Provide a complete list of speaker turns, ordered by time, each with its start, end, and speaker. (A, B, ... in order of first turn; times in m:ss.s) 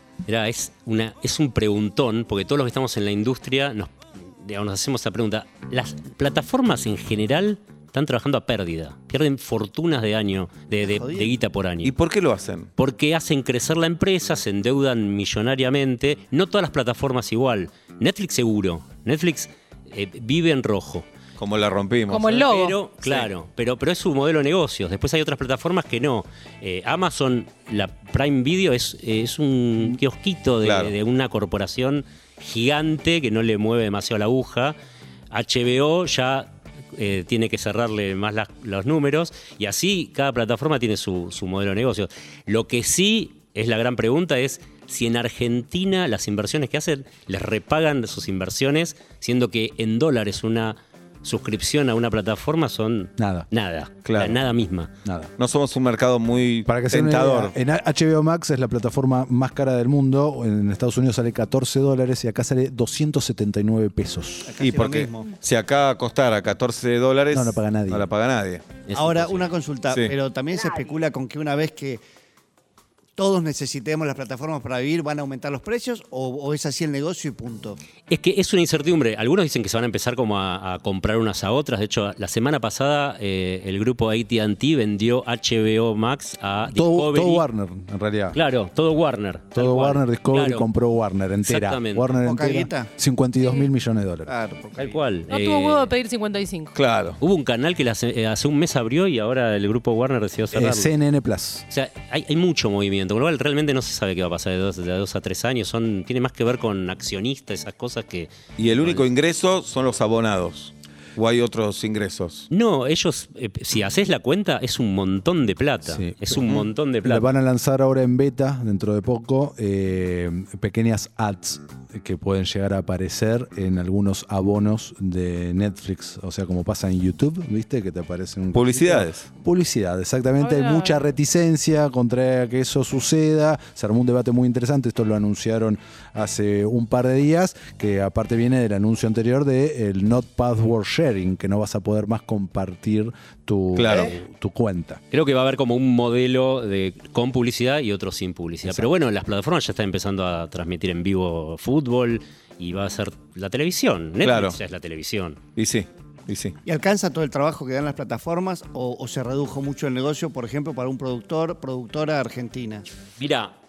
0:00.2-0:11.9 A
0:10.8-0:11.3 B
0:11.8-0:12.7 C
0:12.8-0:21.0 A
0:21.4-0:22.4 C
0:22.1-0:22.8 D
0:22.3-0:34.8 A
0:23.0-0:23.3 C
0:30.6-0:30.9 C
0:35.3-0:54.9 A
0:53.2-0:53.5 E
0:54.0-0:54.4 C
0:55.0-0:55.3 E
0:55.4-0:57.5 C
0:56.6-1:04.6 E
1:04.4-1:05.3 B
1:04.6-1:08.6 C
1:07.3-1:08.1 E
1:08.9-1:09.5 A
1:08.9-1:12.0 B
1:13.2-1:17.8 B
1:18.1-1:27.4 A
1:26.7-1:28.4 E
1:28.3-1:30.7 A
1:29.5-1:34.3 E
1:31.4-1:32.1 A
1:32.2-1:32.9 B
1:34.2-1:35.0 B
1:34.8-1:35.9 A
1:35.3-1:36.8 D
1:36.7-1:37.2 C
1:37.2-1:40.9 A
1:40.5-1:41.6 E
1:41.7-1:49.1 A
1:48.6-1:52.5 C
1:52.5-1:57.3 A
1:55.9-1:56.4 E
1:57.0-2:25.0 E
2:08.5-2:09.3 C
2:10.4-2:11.0 D
2:23.7-2:24.1 C
2:25.1-2:35.4 A
2:34.2-2:34.6 C
2:35.6-2:36.6 C
2:36.6-2:42.8 B
2:43.2-2:43.5 A